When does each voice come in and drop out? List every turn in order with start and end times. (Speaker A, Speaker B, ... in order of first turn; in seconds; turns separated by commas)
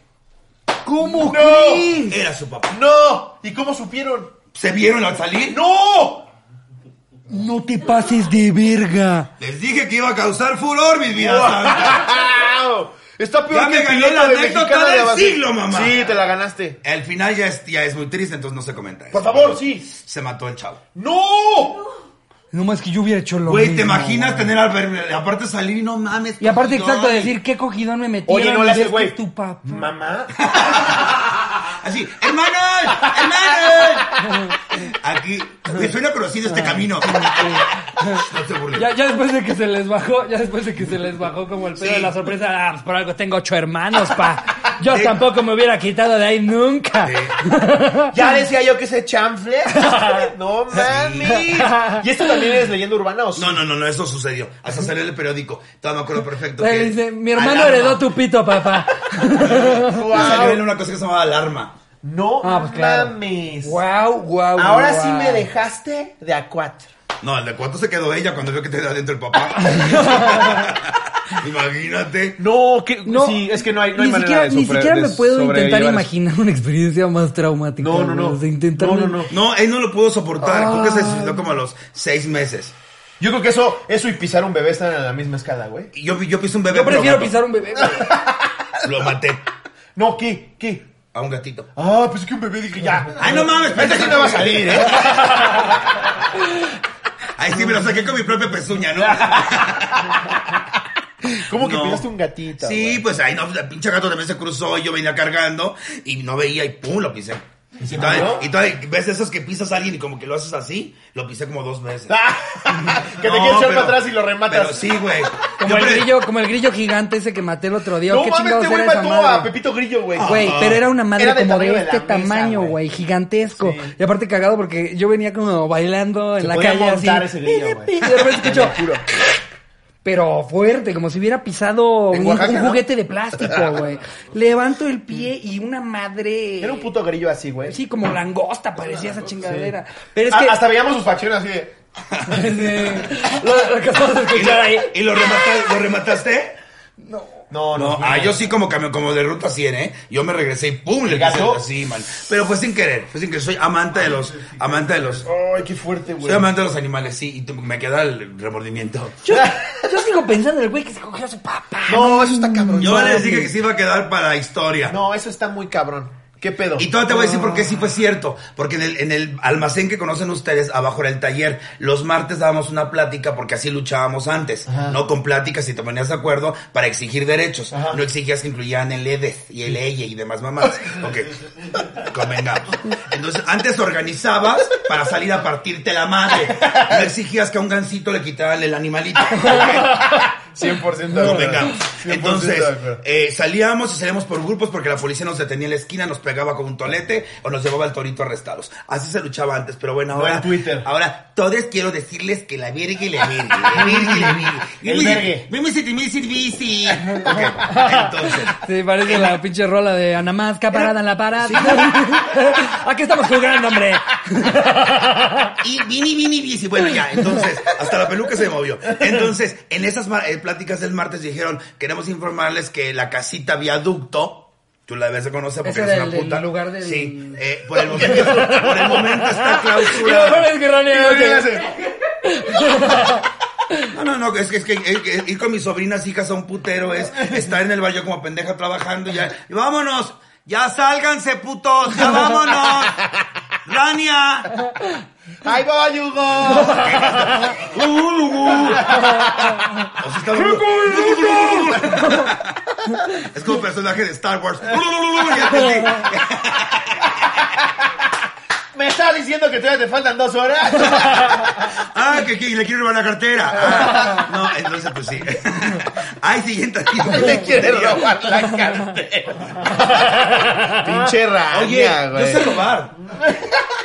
Speaker A: 0.8-2.2, Speaker B: 1.1-2.0, Speaker C: 2.1-2.8, Speaker B: 2.7-4.3, Speaker C: 4.5-5.6, Speaker B: 5.5-6.2, Speaker A: 7.3-9.3, Speaker C: 9.4-12.1, Speaker B: 11.1-16.8, Speaker C: 13.5-16.0, Speaker C: 16.8-20.8, Speaker B: 19.1-20.0, Speaker B: 20.9-21.9, Speaker A: 22.5-24.5, Speaker C: 23.5-27.3, Speaker A: 26.4-29.9, Speaker B: 28.3-30.4, Speaker C: 30.4-38.9, Speaker A: 34.2-34.5, Speaker A: 36.5-48.1, Speaker C: 41.8-42.1, Speaker C: 44.9-45.2, Speaker C: 47.0-47.4, Speaker B: 48.1-53.6, Speaker A: 49.8-50.3, Speaker C: 50.7-51.5, Speaker A: 51.5-52.0, Speaker C: 53.4-58.1, Speaker A: 56.6-60.5, Speaker C: 59.4-61.7, Speaker B: 59.7-60.6, Speaker B: 62.0-63.8, Speaker A: 62.4-65.5, Speaker B: 64.6-66.9, Speaker C: 67.2-72.4, Speaker A: 69.6-70.6, Speaker B: 72.4-76.1, Speaker A: 73.0-79.2, Speaker B: 77.8-79.3, Speaker C: 79.3-82.7, Speaker A: 80.4-81.4, Speaker B: 83.2-85.9, Speaker C: 85.9-87.4, Speaker A: 86.7-88.1, Speaker B: 87.9-88.9, Speaker C: 88.8-89.4, Speaker B: 90.0-90.9, Speaker C: 91.1-91.7, Speaker B: 91.8-95.4, Speaker C: 93.2-95.7, Speaker A: 95.1-95.7, Speaker C: 97.4-100.3, Speaker B: 99.0-100.2, Speaker B: 101.2-103.0, Speaker C: 101.5-102.0, Speaker C: 102.6-112.1, Speaker B: 107.8-108.5, Speaker B: 112.1-115.0, Speaker C: 113.0-116.1, Speaker A: 115.6-119.5, Speaker B: 118.0-120.6, Speaker C: 120.2-120.8, Speaker A: 120.2-128.8, Speaker B: 121.1-122.8, Speaker B: 123.6-123.9, Speaker B: 126.4-129.0, Speaker A: 130.0-136.9, Speaker B: 132.1-132.8, Speaker B: 133.4-133.8, Speaker B: 136.6-137.8, Speaker A: 137.7-140.6, Speaker B: 139.4-139.7, Speaker B: 140.3-141.7, Speaker C: 142.1-143.0, Speaker A: 142.2-145.0, Speaker C: 144.3-146.6, Speaker A: 147.0-147.4, Speaker B: 147.5-148.5, Speaker C: 147.7-155.2, Speaker B: 151.1-151.6, Speaker B: 155.1-156.5, Speaker C: 156.2-159.2, Speaker A: 159.2-163.5, Speaker B: 159.3-159.8, Speaker B: 161.9-163.5, Speaker C: 162.8-164.9, Speaker B: 164.9-167.0, Speaker C: 166.8-190.2, Speaker B: 174.7-175.0, Speaker B: 177.7-178.0, Speaker B: 186.5-187.1, Speaker A: 189.4-190.3, Speaker B: 190.5-193.0, Speaker C: 191.1-209.4, Speaker B: 200.1-200.9, Speaker B: 203.7-205.5, Speaker A: 207.1-215.6, Speaker B: 207.2-207.6, Speaker C: 211.4-212.2, Speaker C: 215.6-230.5, Speaker A: 225.6-233.9, Speaker B: 228.0-228.6, Speaker B: 230.9-231.8, Speaker C: 233.9-243.1, Speaker B: 237.1-237.5, Speaker C: 243.6-244.7, Speaker B: 245.4-247.5, Speaker C: 246.4-248.9, Speaker A: 246.6-247.0, Speaker B: 248.6-249.7, Speaker C: 250.0-252.6, Speaker B: 250.4-252.1, Speaker C: 253.2-257.2, Speaker B: 258.7-261.7, Speaker C: 261.1-268.3, Speaker B: 267.0-273.6, Speaker A: 269.8-270.8, Speaker C: 271.5-273.0